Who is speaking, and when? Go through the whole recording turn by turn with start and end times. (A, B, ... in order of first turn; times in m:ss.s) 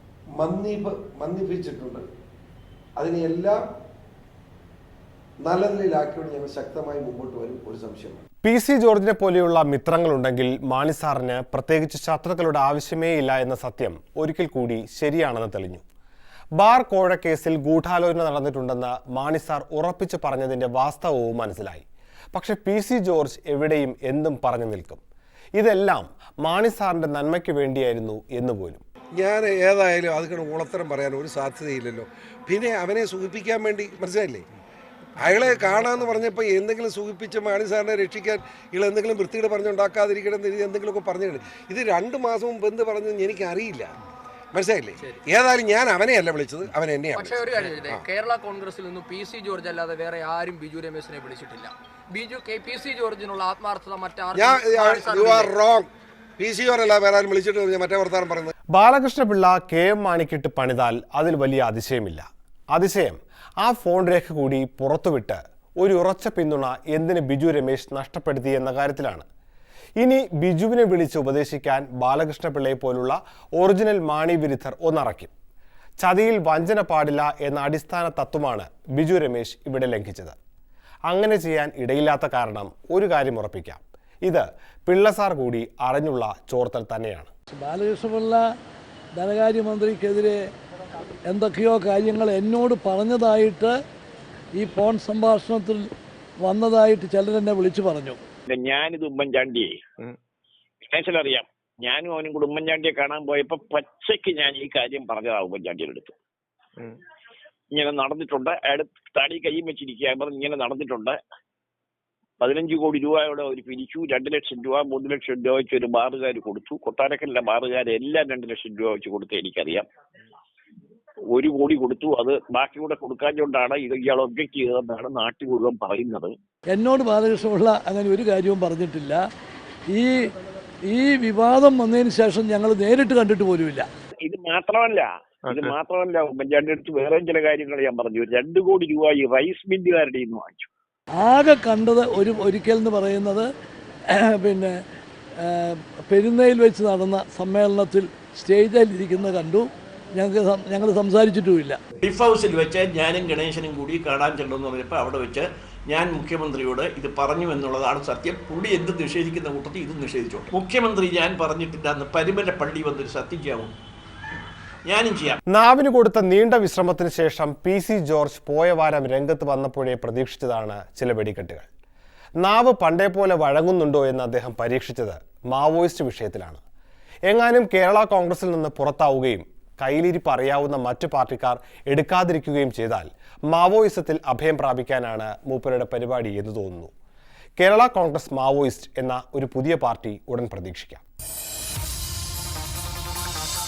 0:00.4-0:02.1 A
0:03.0-0:03.6 A
0:05.4-0:08.2 A
0:08.4-0:15.8 B
0:16.6-0:25.0 B
0:25.6-0:28.8 B
0:29.2-0:34.4 A
0:35.2-0:43.9 A
0:44.5-0:48.0 A
0:47.2-0:55.6 C
0:54.3-0:55.9 A
0:56.4-0:58.5 A
0:58.7-1:09.3 B
1:10.0-1:15.3 B
1:16.0-1:20.4 B
1:21.1-1:27.3 B
1:27.5-1:28.4 D
1:29.2-1:30.4 D
1:31.3-1:33.8 D
1:34.6-1:35.9 D
1:36.4-1:38.2 D
1:38.5-1:39.8 E
1:40.9-1:46.1 E
1:47.7-1:51.2 E
1:52.4-1:59.9 E
2:01.3-2:06.3 E
2:06.7-2:09.2 D
2:09.9-2:10.3 D
2:10.9-2:13.9 D
2:14.2-2:20.7 E
2:21.2-2:23.5 D
2:24.1-2:24.8 D
2:25.4-2:31.8 D
2:32.0-2:43.7 F
2:44.9-2:45.4 F
2:45.5-2:51.7 B
2:52.4-2:56.6 B
2:57.3-3:06.9 B
3:07.6-3:11.0 B